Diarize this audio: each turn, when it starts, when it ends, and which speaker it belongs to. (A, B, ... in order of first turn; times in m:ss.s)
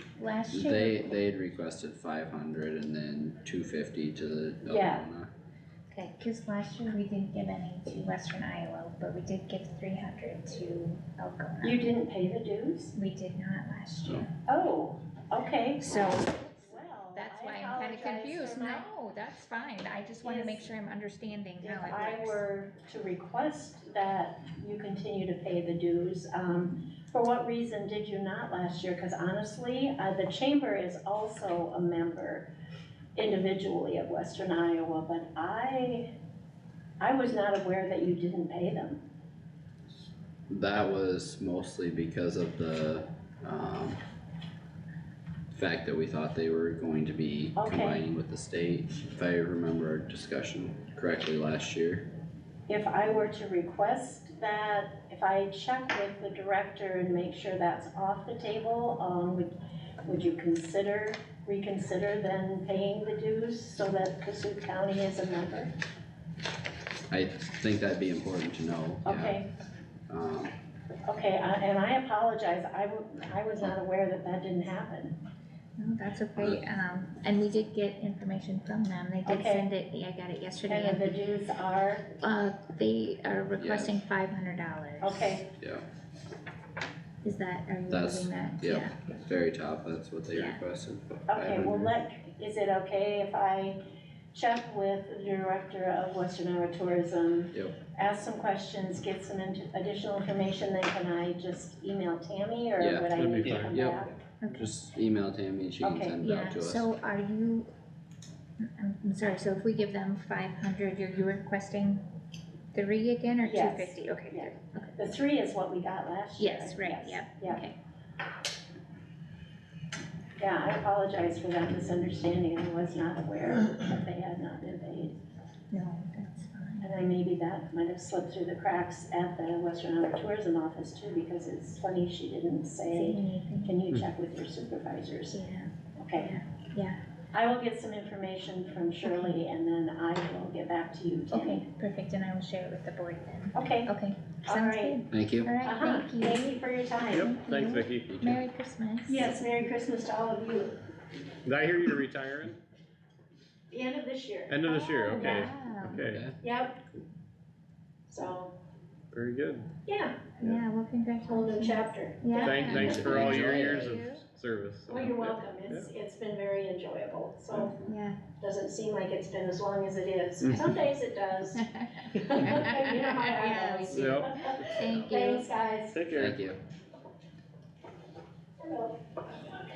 0:00.2-0:01.0 A
0:00.5-0:05.3 B
0:04.6-0:05.1 C
0:05.9-0:11.8 A
0:11.6-0:13.0 C
0:13.0-0:14.3 A
0:14.5-0:16.0 C
0:15.8-0:22.4 A
0:16.6-0:18.9 C
0:20.2-0:20.6 C
0:21.6-0:32.5 C
0:33.2-0:36.1 C
0:37.0-0:39.0 C
0:40.5-0:44.0 B
0:45.5-0:52.1 B
0:47.6-0:48.0 C
0:52.7-0:59.5 C
1:00.0-1:05.7 C
1:07.1-1:09.4 B
1:09.0-1:09.5 C
1:10.1-1:10.5 B
1:11.1-1:15.2 C
1:15.8-1:21.2 A
1:16.4-1:16.6 B
1:19.2-1:19.7 C
1:20.7-1:22.1 C
1:22.2-1:25.3 A
1:23.6-1:24.0 B
1:25.0-1:25.5 C
1:25.6-1:25.9 B
1:27.2-1:29.2 A
1:27.9-1:31.9 B
1:30.3-1:30.6 A
1:31.3-1:33.8 C
1:34.3-1:44.2 C
1:42.8-1:46.9 B
1:43.2-1:43.8 D
1:44.4-1:44.7 A
1:45.8-1:46.2 C
1:46.2-1:47.7 A
1:48.6-1:52.0 A
1:52.7-1:55.2 A
1:53.4-1:57.6 C
1:56.4-1:57.8 A
2:00.4-2:05.2 C
2:05.7-2:06.9 A
2:06.8-2:15.4 C
2:12.9-2:13.8 A
2:15.3-2:17.0 A
2:16.0-2:16.4 C
2:17.3-2:21.7 C
2:19.0-2:19.4 A
2:21.3-2:26.5 A
2:23.5-2:23.9 C
2:24.4-2:25.0 C
2:25.1-2:25.5 B
2:25.6-2:27.3 C
2:27.1-2:28.1 D
2:27.1-2:29.3 A
2:28.1-2:28.4 B
2:29.1-2:30.8 C
2:31.4-2:32.6 D
2:33.7-2:35.5 C
2:34.5-2:36.2 D
2:34.9-2:36.0 A
2:35.9-2:36.3 B
2:36.4-2:36.8 C
2:38.1-2:38.5 C
2:39.1-2:39.7 D
2:39.9-2:40.3 C
2:40.4-2:44.2 A
2:41.2-2:43.0 C
2:42.4-2:45.9 D
2:42.6-2:44.0 B
2:44.9-2:47.8 C
2:47.8-2:48.2 A
2:48.4-2:56.0 C
2:50.4-2:50.7 D
2:51.7-2:55.6 A
2:53.9-2:54.3 D
2:54.8-2:55.1 B
2:55.9-2:56.4 D
2:56.1-2:56.6 B
2:58.6-2:59.0 C